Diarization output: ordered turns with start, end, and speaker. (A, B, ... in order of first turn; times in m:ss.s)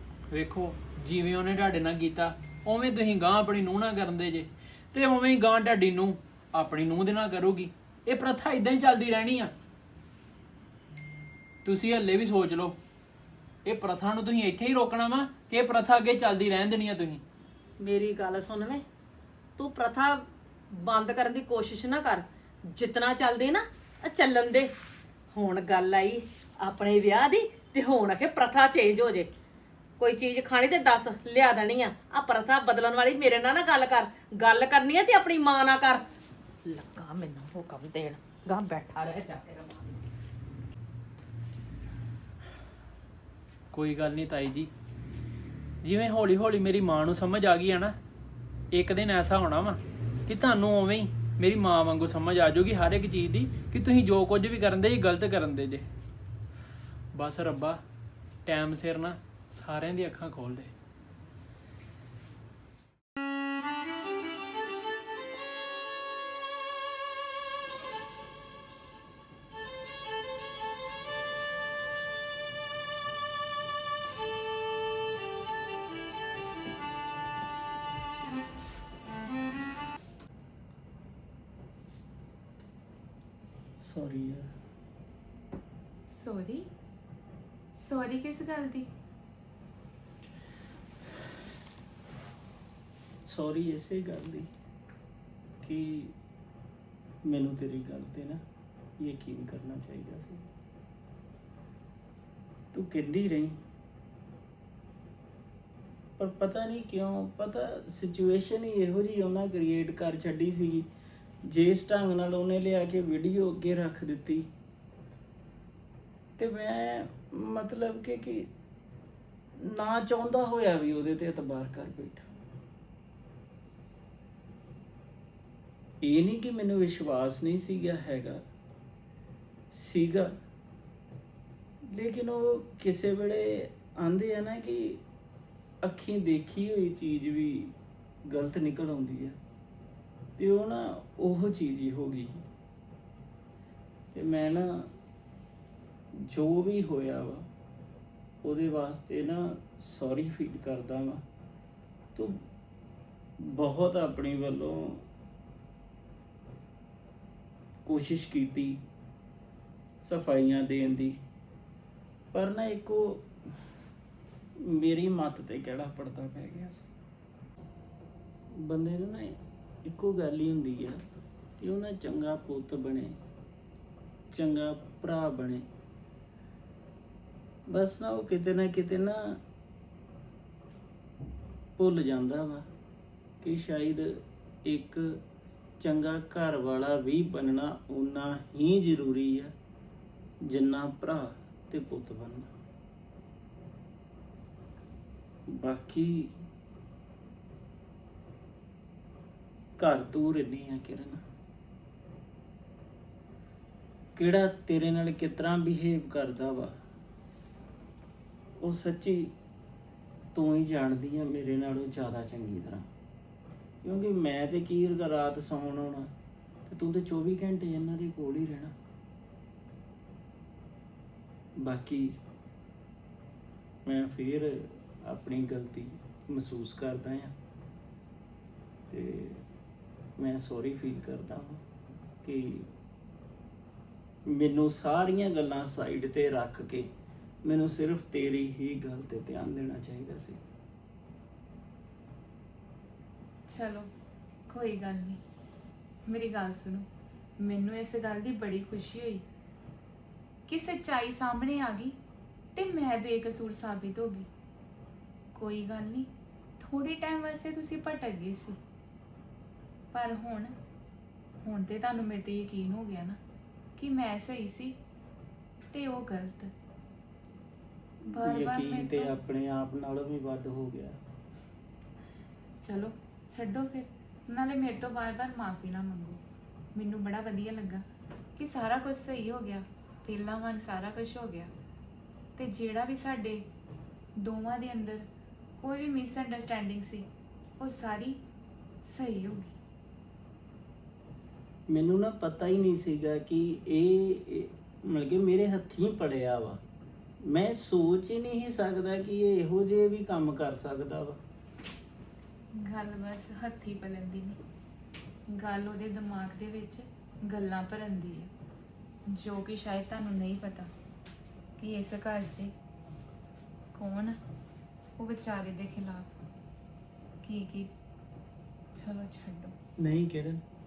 0:00.3-0:09.5 A
0:11.6-0:12.8 A
0:13.6-0:17.2 A
0:17.8-0:18.8 B
0:19.6-0:24.7 B
0:25.3-0:29.3 B
0:30.0-0:36.1 B
0:36.6-0:40.0 B
0:43.7-0:44.7 A
0:45.8-0:47.9 A
0:48.7-0:55.8 A
0:57.1-0:57.8 A
0:58.4-1:00.7 A
1:23.8-1:24.5 C
1:26.1-1:26.7 D
1:27.8-1:28.9 D
1:33.2-1:34.5 C
1:35.6-1:36.1 C
1:37.2-1:38.4 C
1:39.0-1:40.4 C
1:42.7-1:43.6 C
1:46.2-1:50.9 C
1:51.5-1:54.5 C
1:56.4-1:58.5 C
1:59.6-2:02.3 C
2:06.0-2:08.4 C
2:09.7-2:10.3 C
2:11.9-2:15.0 C
2:15.8-2:17.7 C
2:18.3-2:19.4 C
2:20.4-2:22.4 C
2:24.1-2:24.9 C
2:26.3-2:27.4 C
2:28.4-2:31.2 C
2:33.5-2:35.0 C
2:37.8-2:38.8 C
2:40.0-2:41.2 C
2:42.3-2:43.3 C
2:44.6-2:46.9 C
2:48.6-2:51.0 C
2:51.6-2:53.2 C
2:54.3-2:55.6 C
2:57.7-2:59.4 C
3:01.8-3:02.7 C
3:03.4-3:05.2 C
3:05.8-3:09.5 C
3:10.4-3:12.5 C
3:15.6-3:16.3 C
3:19.8-3:21.2 C
3:24.2-3:26.8 C
3:28.6-3:29.3 C
3:30.3-3:32.9 C
3:33.8-3:36.1 C
3:36.7-3:38.7 C
3:41.6-3:42.2 C
3:43.8-3:47.3 C
3:48.9-3:49.4 C
3:50.2-3:51.6 C
3:52.2-3:52.7 C
3:54.3-3:56.9 C
3:57.4-4:00.4 C
4:03.5-4:03.9 D
4:04.5-4:05.2 D
4:06.1-4:06.8 D
4:07.4-4:09.2 D
4:10.5-4:12.0 D
4:12.5-4:14.3 D
4:15.3-4:16.1 D
4:16.6-4:18.6 D
4:19.9-4:20.5 D
4:21.4-4:23.2 D
4:23.8-4:24.8 D
4:25.7-4:26.5 D
4:28.1-4:29.1 D
4:28.1-4:31.0 C
4:32.6-4:36.2 D
4:36.7-4:37.8 D
4:38.4-4:41.5 D
4:42.4-4:43.4 D
4:44.2-4:45.1 D
4:45.6-4:47.1 D
4:47.6-4:48.2 D
4:48.8-4:49.5 D
4:51.7-4:56.6 C
4:57.2-5:01.2 C
5:02.6-5:04.4 D
5:05.3-5:08.3 D
5:09.1-5:10.7 D
5:11.6-5:12.5 D
5:13.7-5:14.2 D
5:15.0-5:16.1 D
5:17.2-5:17.7 D
5:18.7-5:19.5 D
5:19.8-5:20.4 C